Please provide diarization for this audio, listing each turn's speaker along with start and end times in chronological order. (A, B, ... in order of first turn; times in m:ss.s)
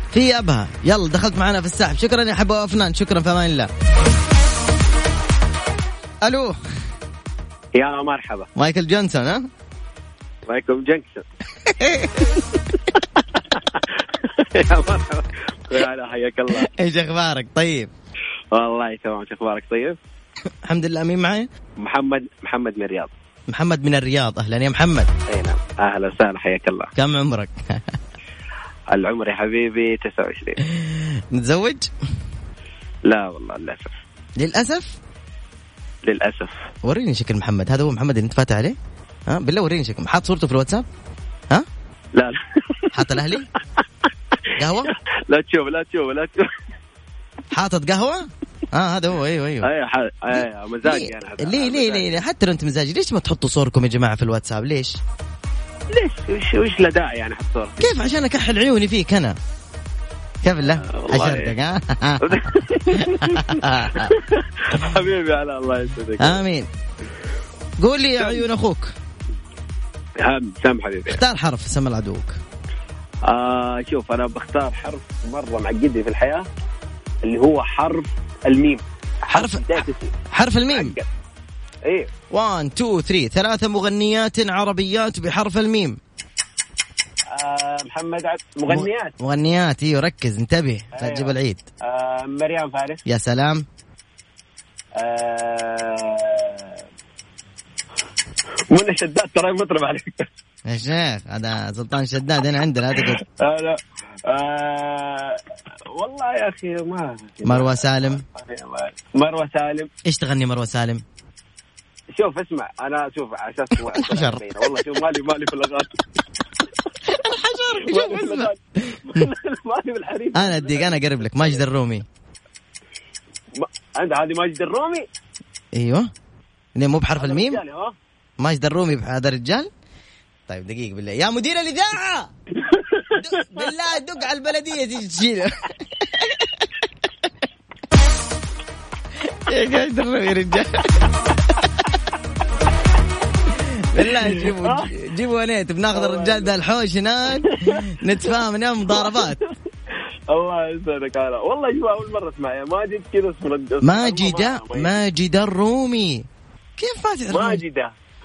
0:00.1-0:03.7 A
0:06.2-0:06.6 A
0:07.7-0:08.5 B
0:08.6-0:09.5 A
0:10.5-0:11.2 B
0:11.8-0:12.2 A
0:14.4-0:16.7 B
0:16.5-0:17.9 A
0:18.5-0:20.0 B
0:20.6-0:21.5 A
0:21.8-0:23.1 B
0:23.5-0:25.1 A
0:25.3-0:26.9 B
0:27.0-0:27.9 A
0:28.9-0:30.6 B
0:30.7-0:31.9 A
0:33.1-0:33.9 B
0:34.4-0:35.0 A
0:36.1-0:36.5 B
0:36.8-0:38.8 A
0:39.3-0:40.9 A
0:42.2-0:43.0 B
0:42.9-0:43.5 A
0:44.6-0:44.9 A
0:45.0-0:46.5 B
0:47.5-0:49.7 A
0:49.6-0:52.2 B
0:50.3-0:55.0 A
0:55.9-0:57.9 B
0:57.8-0:59.4 A
1:00.4-1:02.3 A
1:00.8-1:01.5 B
1:02.2-1:06.4 B
1:03.0-1:04.1 A
1:06.2-1:06.7 A
1:07.8-1:08.9 A
1:10.2-1:11.2 B
1:11.1-1:12.4 A
1:13.3-1:16.5 B
1:17.2-1:20.1 B
1:19.3-1:21.0 A
1:20.7-1:21.1 B
1:22.3-1:26.0 A
1:27.3-1:29.1 B
1:28.7-1:31.6 A
1:31.0-1:33.0 B
1:33.1-1:33.6 A
1:35.0-1:36.8 B
1:38.7-1:40.2 B
1:40.7-1:43.2 A
1:43.4-1:45.4 B
1:45.9-1:49.9 B
1:47.4-1:48.2 A
1:50.0-1:51.0 A
1:52.2-1:56.0 B
1:53.9-1:54.6 A
1:57.1-1:59.2 A
1:57.9-2:01.6 B
2:00.3-2:02.1 A
2:03.6-2:05.1 B
2:05.7-2:06.1 A
2:06.8-2:07.6 A
2:07.2-2:07.9 B
2:08.4-2:09.7 A
2:10.5-2:12.3 A
2:12.8-2:13.2 B
2:13.2-2:16.4 A
2:19.5-2:21.1 A
2:23.6-2:29.4 A
2:24.3-2:24.9 B
2:25.9-2:26.5 B
2:27.5-2:27.8 B
2:28.9-2:29.4 B
2:30.3-2:35.0 B
2:33.8-2:36.3 A
2:36.8-2:37.6 A
2:37.3-2:37.9 B